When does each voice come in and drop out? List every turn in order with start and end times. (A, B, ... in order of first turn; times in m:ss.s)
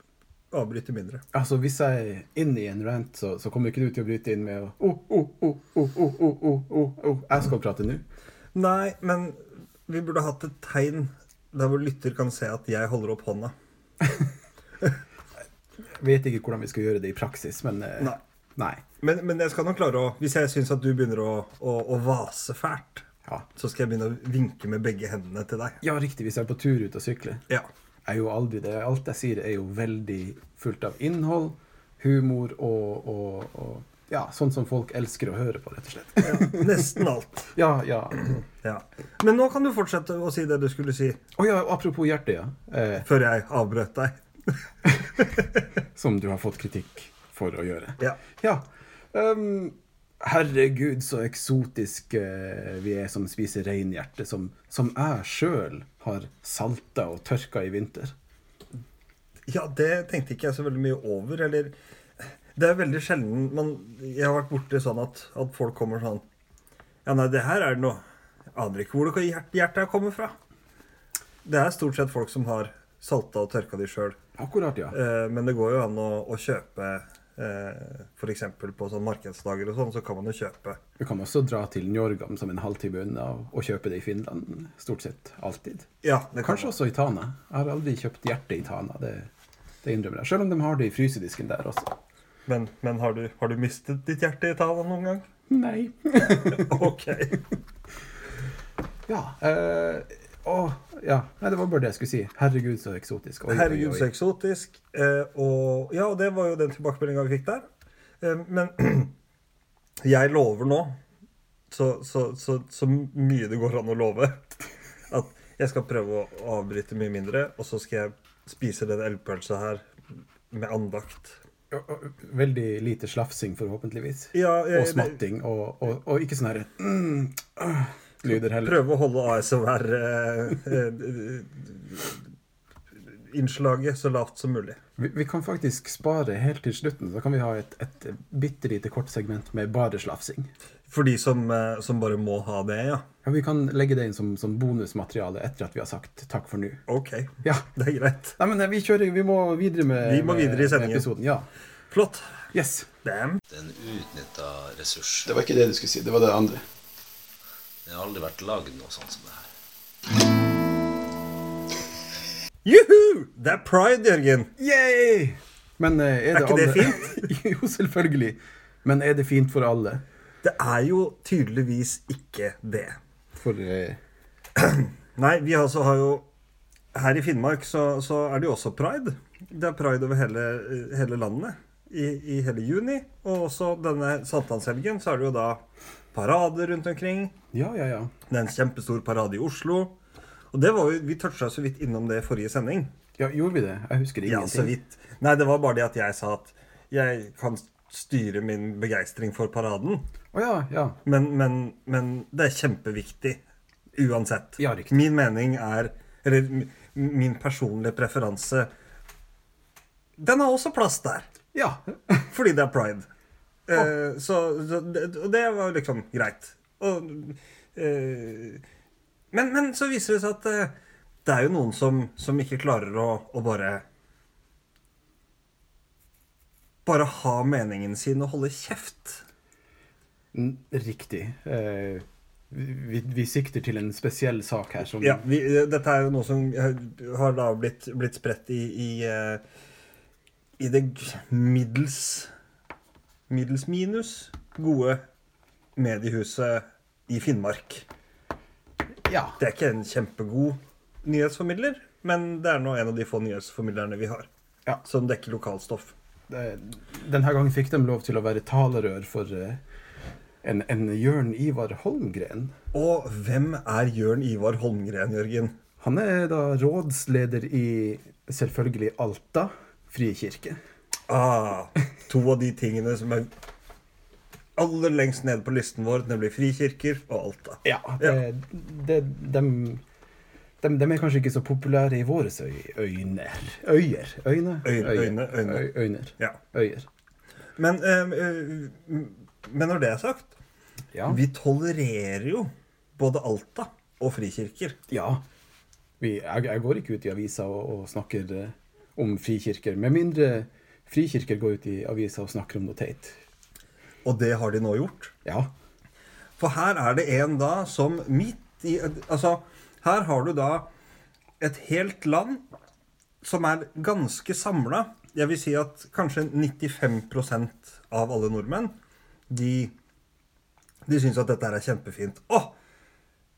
0:00.5-0:01.2 A
0:01.3-0:08.0 B
0:08.5-0:13.5 A
0:15.9-0:18.8 B
0:19.0-0:25.8 A
0:25.8-0:27.4 B
0:28.1-0:36.9 B
0:36.2-0:37.5 A
0:37.6-0:38.4 B
0:38.5-0:41.2 A
0:41.4-0:43.1 B
0:43.0-0:44.6 A
0:45.2-0:45.5 A
0:46.0-0:58.2 B
0:59.5-1:01.8 A
1:02.6-1:06.2 A
1:07.0-1:08.0 A
1:08.5-1:10.4 A
1:11.4-1:14.2 A
1:14.4-1:15.0 B
1:14.9-1:20.8 A
1:21.0-1:25.9 B
1:26.0-1:26.7 A
1:26.4-1:29.3 B
1:29.8-1:32.0 B
1:32.5-1:35.3 A
1:35.5-1:36.9 B
1:36.2-1:37.4 A
1:39.1-1:44.1 B
1:43.5-1:47.6 A
1:48.2-1:49.1 A
1:50.0-1:51.0 A
1:51.7-1:59.9 A
2:00.5-2:01.4 A
2:01.7-2:08.8 B
2:04.3-2:05.2 A
2:08.3-2:12.2 A
2:13.1-2:14.8 A
2:15.0-2:20.5 B
2:20.9-2:23.1 A
2:23.2-2:26.8 B
2:26.9-2:28.4 A
2:28.4-2:31.5 B
2:30.0-2:31.1 A
2:31.9-2:32.5 A
2:32.5-2:32.9 B
2:33.0-2:33.4 A
2:33.5-2:35.3 C
2:35.3-2:36.6 B
2:37.9-2:39.5 C
2:42.6-2:44.5 A
2:44.6-2:50.0 B
2:46.3-2:47.2 A
2:50.4-2:53.0 A
2:53.4-2:54.0 B
2:54.6-2:56.3 A
2:56.9-3:05.6 A
3:06.1-3:07.3 A
3:07.5-3:08.1 B
3:08.3-3:10.0 A
3:10.5-3:12.9 A
3:13.2-3:14.7 B
3:14.3-3:20.0 A
3:20.3-3:21.0 B
3:21.0-3:23.4 A
3:23.9-3:28.7 A
3:24.6-3:25.0 B
3:30.2-3:31.3 A
3:31.5-3:32.3 B
3:32.3-3:33.1 A
3:33.7-3:38.6 A
3:39.3-3:43.8 A
3:46.8-3:49.2 A
3:50.3-3:55.2 B
3:55.0-3:59.4 A
4:00.6-4:02.3 A
4:03.3-4:05.0 A
4:05.8-4:07.9 A
4:09.0-4:09.4 B
4:09.4-4:14.3 A
4:14.8-4:15.9 A
4:16.3-4:19.6 B
4:20.4-4:22.5 B
4:22.7-4:25.6 A
4:25.8-4:30.6 B
4:31.1-4:33.3 A
4:34.6-4:38.2 A
4:37.6-4:39.8 B
4:40.6-4:46.9 B
4:44.6-4:46.4 A
4:47.6-4:50.3 A
4:50.9-4:51.2 B
4:51.1-4:54.8 A
4:54.9-4:55.2 B
4:56.0-5:03.2 B
5:04.0-5:05.1 A
5:05.2-5:05.5 B
5:06.4-5:10.7 A
5:11.4-5:12.4 A
5:13.2-5:18.7 A
5:19.3-5:19.7 A
5:20.9-5:22.5 A